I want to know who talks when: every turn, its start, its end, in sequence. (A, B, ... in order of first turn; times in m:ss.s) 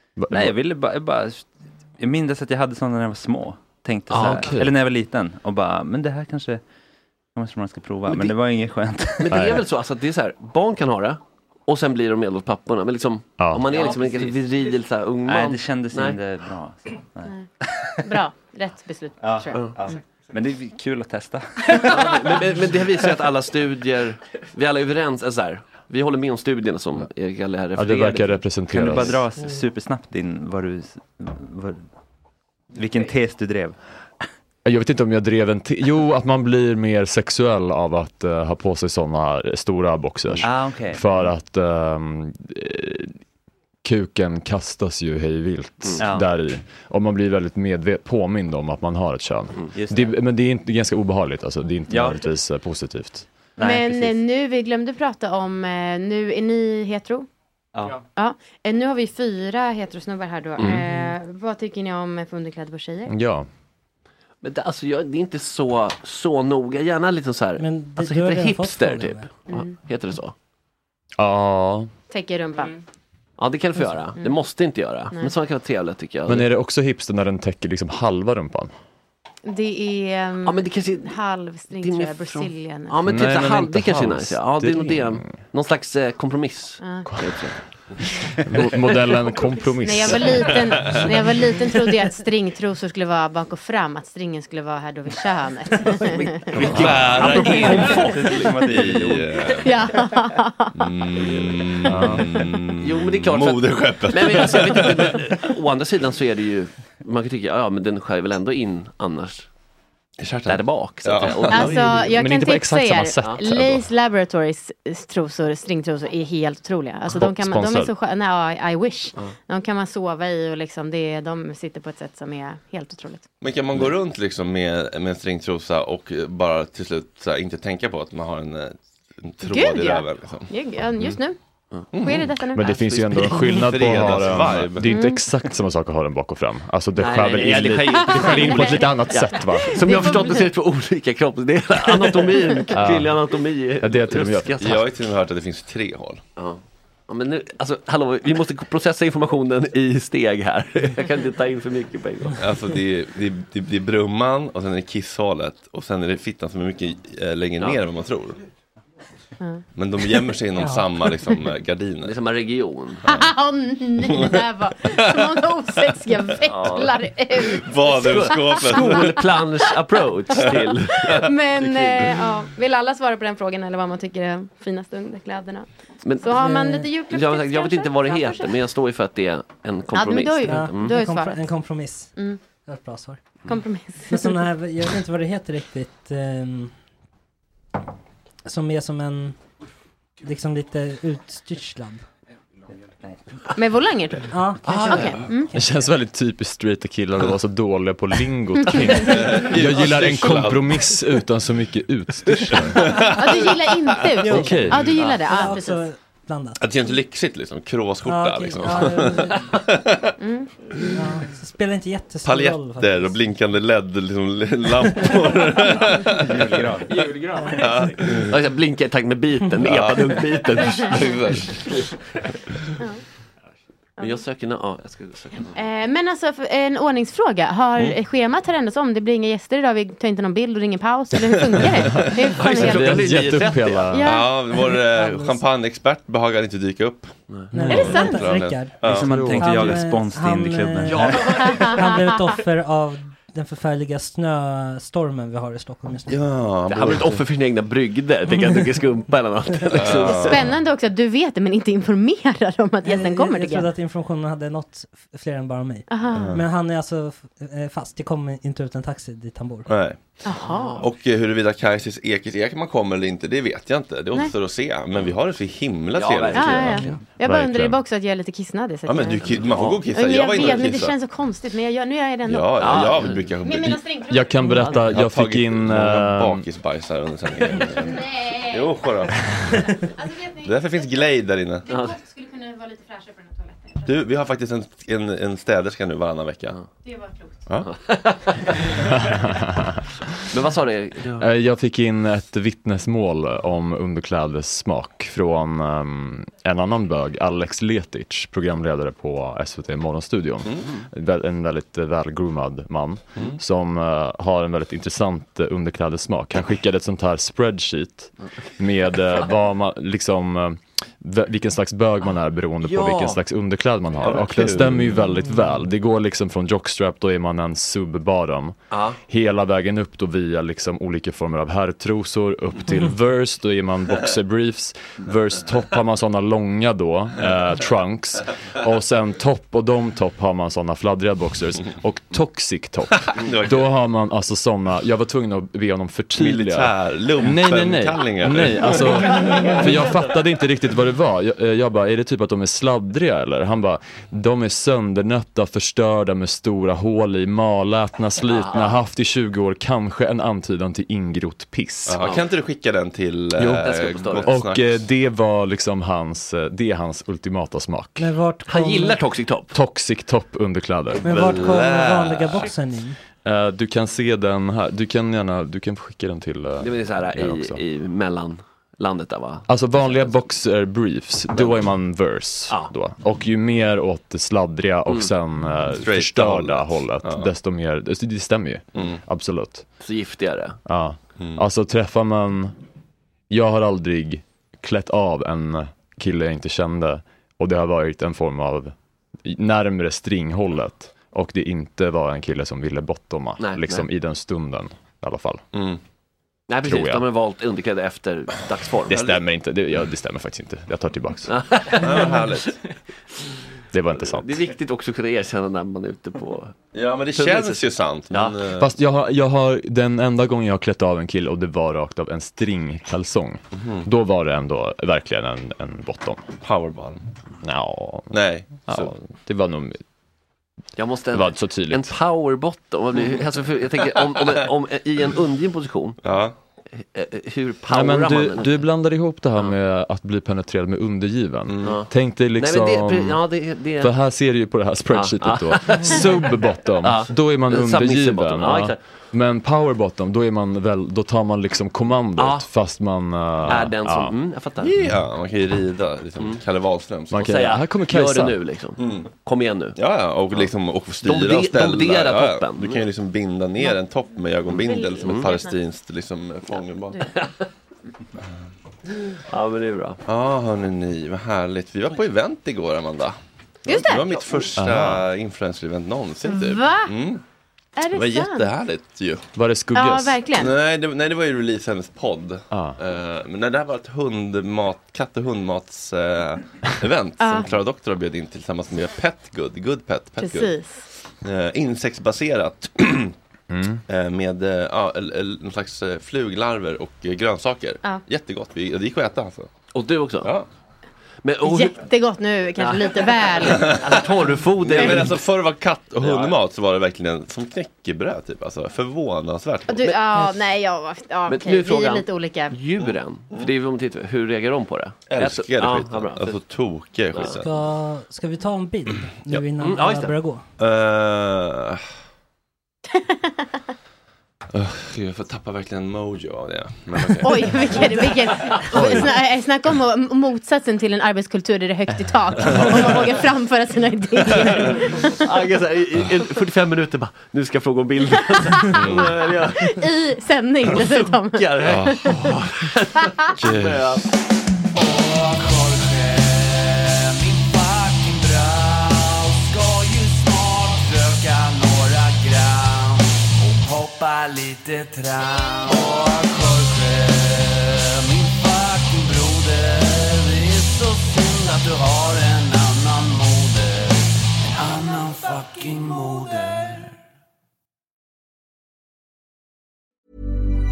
0:00.2-0:00.6 A
0:00.3-0:06.6 B
0:04.1-0:04.6 C
0:04.1-0:04.7 A
0:07.3-0:09.4 B
0:08.1-0:08.3 C
0:09.2-0:16.2 C
0:09.3-0:09.6 A
0:13.4-0:13.6 A
0:13.7-0:14.4 B
0:15.2-0:18.1 B
0:18.0-0:20.0 D
0:19.2-0:22.0 B
0:19.5-0:19.8 C
0:21.8-0:29.1 C
0:27.8-0:29.2 A
0:28.7-0:31.9 B
0:32.7-0:34.2 B
0:34.6-0:43.2 A
0:40.4-0:41.3 B
0:43.8-0:53.3 A
0:46.0-0:46.3 B
0:49.7-0:50.2 B
0:51.9-0:52.2 B
0:53.6-0:54.2 B
0:53.6-0:57.3 D
0:57.7-0:58.0 B
0:58.2-1:03.1 D
1:00.6-1:01.2 E
1:03.1-1:03.5 A
1:04.4-1:10.3 C
1:07.6-1:09.3 E
1:11.2-1:11.9 A
1:12.1-1:12.7 D
1:13.4-1:16.5 C
1:16.3-1:18.7 A
1:19.4-1:23.0 D
1:20.4-1:28.2 C
1:23.0-1:25.4 A
1:26.8-1:27.1 D
1:27.1-1:30.8 A
1:29.8-1:36.2 D
1:36.2-1:38.7 C
1:36.5-1:39.3 B
1:36.6-1:39.8 F
1:37.3-1:39.0 D
1:39.6-1:40.9 D
1:40.8-1:45.2 F
1:41.9-1:42.3 A
1:42.8-1:49.5 C
1:50.2-1:51.8 F
1:50.5-1:52.0 C
1:51.5-2:03.3 D
1:51.6-1:53.9 A
1:57.1-1:57.9 A
2:03.4-2:10.5 F
2:09.4-2:13.4 D
2:11.9-2:12.4 F
2:12.6-2:19.8 A
2:12.7-2:14.3 C
2:13.4-2:14.9 F
2:14.8-2:15.2 D
2:17.0-2:24.8 C
2:17.9-2:20.4 D
2:22.7-2:23.2 A
2:23.8-2:24.8 A
2:24.6-2:26.2 F
2:26.4-2:32.4 C
2:32.4-2:38.4 F
2:39.8-2:42.2 F
2:40.6-2:40.9 E
2:42.0-2:43.0 C
2:43.1-2:49.4 D
2:44.1-2:45.3 F
2:46.5-2:47.0 C
2:47.4-2:49.2 F
2:48.0-2:52.1 C
2:51.1-2:58.6 D
2:56.0-2:56.4 C
2:56.4-2:56.9 E
2:57.1-3:01.0 C
2:59.9-3:02.4 D
3:00.4-3:06.8 E
3:03.4-3:04.4 D
3:08.5-3:09.5 E
3:10.2-3:12.1 E
3:13.6-3:15.5 D
3:14.3-3:15.8 E
3:14.6-3:15.2 C
3:15.5-3:22.9 A
3:19.0-3:21.0 F
3:22.6-3:23.6 F
3:23.2-3:25.8 D
3:24.2-3:27.0 E
3:24.3-3:25.0 A
3:25.0-3:25.5 C
3:26.6-3:30.2 F
3:28.0-3:29.5 E
3:30.2-3:30.9 D
3:30.9-3:33.2 E
3:32.2-3:36.6 F
3:35.0-3:35.4 E
3:36.2-3:37.0 B
3:36.9-3:38.0 G
3:37.4-3:37.8 E
3:37.6-3:38.3 F
3:38.2-3:41.0 C
3:39.6-3:41.9 F
3:44.0-3:45.6 C
3:45.6-3:53.4 D
3:52.3-3:53.9 C
3:52.5-3:54.1 A
3:53.9-3:54.6 D
3:54.0-3:59.3 F
3:54.5-3:55.4 E
3:57.5-4:06.4 E
3:57.7-3:58.2 D
3:58.8-3:59.8 A
3:58.8-4:01.6 B
4:00.9-4:01.6 C
4:01.2-4:01.7 G
4:01.4-4:02.1 D
4:06.1-4:07.2 F
4:06.7-4:10.5 C
4:09.7-4:10.5 F
4:10.2-4:13.7 D
4:12.8-4:19.7 E
4:15.9-4:16.3 D
4:16.1-4:16.4 F
4:19.7-4:27.0 F
4:20.2-4:20.8 D
4:20.5-4:20.9 C
4:25.9-4:27.0 C
4:26.3-4:34.8 D
4:27.2-4:27.8 A
4:28.9-4:31.0 F
4:29.2-4:30.6 C
4:32.3-4:33.9 F
4:32.6-4:33.3 C
4:34.1-4:36.4 A
4:34.8-4:39.7 F
4:37.9-4:38.8 D
4:39.6-4:41.0 D
4:40.4-4:41.7 F
4:41.7-4:43.8 D
4:41.7-4:42.0 C
4:43.8-4:46.6 F
4:46.8-4:47.3 D
4:47.5-4:47.7 F
4:47.7-4:48.5 C
4:49.0-4:49.8 A
4:50.2-4:51.3 C
4:51.2-5:18.6 A
5:12.6-5:13.2 C
5:14.0-5:15.1 F
5:14.0-5:14.7 C
5:18.7-5:19.0 C
5:19.1-5:52.0 A
5:33.1-5:33.7 F
5:36.2-5:39.6 F
5:48.2-5:48.7 C
5:51.9-5:54.9 F
5:53.4-5:58.2 A
5:53.4-5:54.3 C
5:58.0-5:59.0 E
5:58.4-5:59.6 C
5:59.5-6:01.4 A
6:01.0-6:03.0 E
6:01.0-6:02.5 F
6:03.2-6:07.6 A
6:06.6-6:10.2 C
6:09.5-6:19.7 A
6:11.3-6:11.8 C
6:15.8-6:17.3 F
6:18.8-6:19.0 F
6:19.8-6:20.6 C
6:20.6-6:22.6 A
6:23.3-6:35.4 A
6:33.4-6:33.9 C
6:35.5-6:35.8 F
6:36.5-6:39.0 C
6:36.6-6:37.0 A
6:38.9-6:41.4 A
6:38.9-6:39.2 F
6:41.3-6:42.3 C
6:41.8-6:42.6 F
6:43.7-6:44.4 A
6:44.0-6:46.6 C
6:46.7-6:48.7 F
6:47.2-6:48.4 C
6:48.6-6:56.2 A
6:53.6-6:53.8 F
6:56.4-6:57.1 F
6:57.4-6:59.8 A
6:58.1-6:58.9 F
7:00.8-7:06.0 C
7:01.1-7:01.9 A
7:06.0-7:06.3 F
7:06.8-7:08.6 C
7:07.7-7:24.2 A
7:11.5-7:11.8 F
7:11.6-7:13.9 C
7:14.9-7:18.8 C
7:22.2-7:22.5 C
7:23.5-7:24.7 C
7:24.6-7:27.3 F
7:27.1-7:28.4 A
7:27.1-7:29.8 C
7:28.8-7:29.1 F
7:29.8-7:37.0 F
7:30.3-7:32.8 C
7:34.5-7:35.3 C
7:34.6-7:35.6 D
7:36.5-7:37.1 D
7:37.1-7:37.5 C
7:39.3-7:40.0 C
7:40.1-7:47.2 F
7:43.7-7:44.4 D
7:44.6-7:45.1 A
7:46.2-7:46.9 D
7:47.8-7:48.5 D
7:47.9-7:49.3 F
7:49.4-7:50.2 A
7:49.7-7:50.5 D
7:50.4-8:03.2 F
7:52.5-7:52.8 A
7:57.2-7:57.5 D
8:00.2-8:00.9 D
8:03.5-8:03.8 A
8:03.9-8:09.5 F
8:09.7-8:10.3 C
8:11.2-8:11.8 C
8:11.4-8:13.8 D
8:12.6-8:15.3 C
8:13.4-8:19.9 F
8:16.0-8:16.4 C
8:19.7-8:22.5 D
8:21.3-8:26.4 C
8:22.8-8:23.5 F
8:25.1-8:27.7 F
8:27.1-8:27.4 C
8:27.2-8:30.5 E
8:29.0-8:29.4 F
8:29.6-8:30.1 C
8:30.6-8:31.8 F
8:32.9-8:33.3 D
8:34.5-8:38.1 F
8:37.2-8:45.1 D
8:38.7-8:39.1 A
8:45.2-8:49.8 C
8:48.6-8:52.3 D
8:48.7-8:49.2 F
8:50.7-8:54.1 C
8:51.6-8:52.3 F
8:53.4-8:54.0 F
8:54.7-9:17.0 G